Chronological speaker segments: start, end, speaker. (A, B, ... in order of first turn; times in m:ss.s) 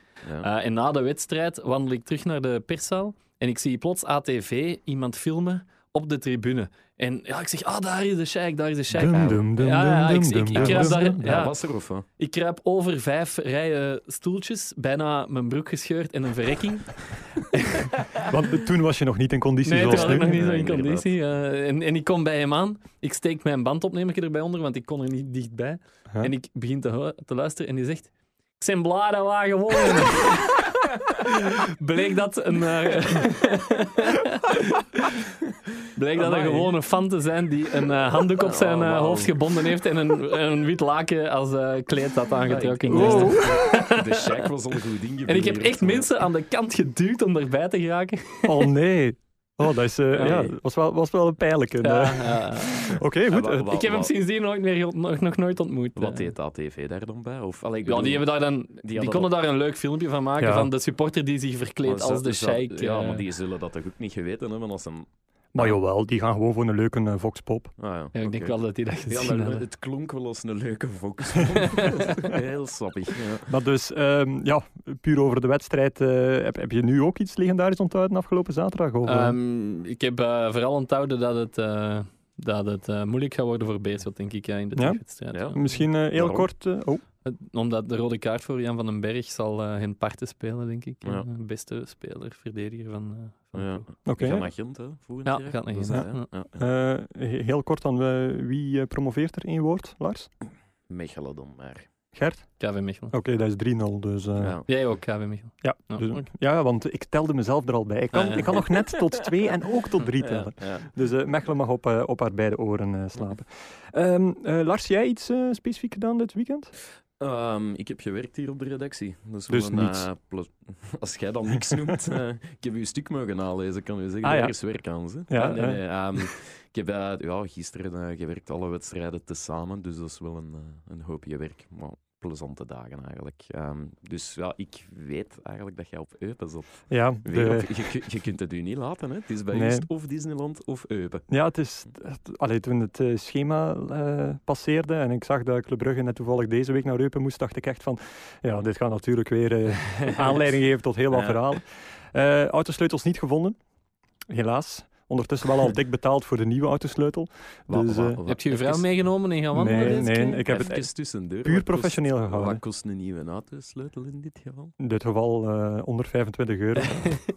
0:00.2-0:00.5 A
0:00.4-0:11.6 B
0:08.9-0:11.3 C
0:09.1-0:09.4 A
0:10.5-0:12.0 A
0:12.2-0:18.3 B
0:18.3-0:20.4 C
0:19.6-0:35.3 B
0:19.8-0:21.1 A
0:35.9-0:44.5 B
0:36.2-0:36.7 A
0:38.3-0:39.7 A
0:42.5-0:46.1 A
0:42.9-0:43.7 C
0:45.3-0:48.7 B
0:48.4-0:53.6 C
0:50.2-0:50.4 B
0:50.2-0:50.5 A
0:51.8-0:56.3 B
0:53.3-0:54.1 A
0:56.0-0:58.3 A
0:57.8-1:03.2 B
0:58.8-0:59.3 A
1:00.4-1:00.7 C
1:01.8-1:05.8 A
1:05.5-1:07.7 C
1:07.8-1:08.6 A
1:08.1-1:09.6 B
1:09.1-1:13.5 A
1:11.6-1:12.3 B
1:13.5-1:19.4 C
1:19.0-1:25.8 B
1:24.7-1:25.0 C
1:25.3-1:25.6 A
1:25.5-1:27.0 C
1:26.1-1:26.5 A
1:27.2-1:33.8 B
1:33.5-1:36.6 A
1:34.0-1:34.5 C
1:35.2-1:36.2 B
1:35.9-1:40.3 C
1:40.9-1:41.9 A
1:42.1-1:42.5 C
1:42.6-1:43.1 B
1:43.1-1:44.6 C
1:44.4-1:44.7 A
1:44.7-1:46.2 B
1:45.6-1:56.7 C
1:48.1-1:48.5 B
1:48.3-1:49.2 A
1:50.2-1:50.9 A
1:57.2-2:21.2 A
1:59.5-2:00.1 C
2:04.2-2:04.5 C
2:05.3-2:05.8 C
2:16.9-2:17.7 C
2:19.5-2:19.9 C
2:21.3-2:33.6 C
2:31.1-2:31.4 A
2:34.3-2:38.2 C
2:37.7-2:38.9 A
2:38.3-2:40.7 B
2:39.5-2:40.9 C
2:40.5-2:44.7 A
2:41.4-2:42.6 C
2:44.8-2:47.2 C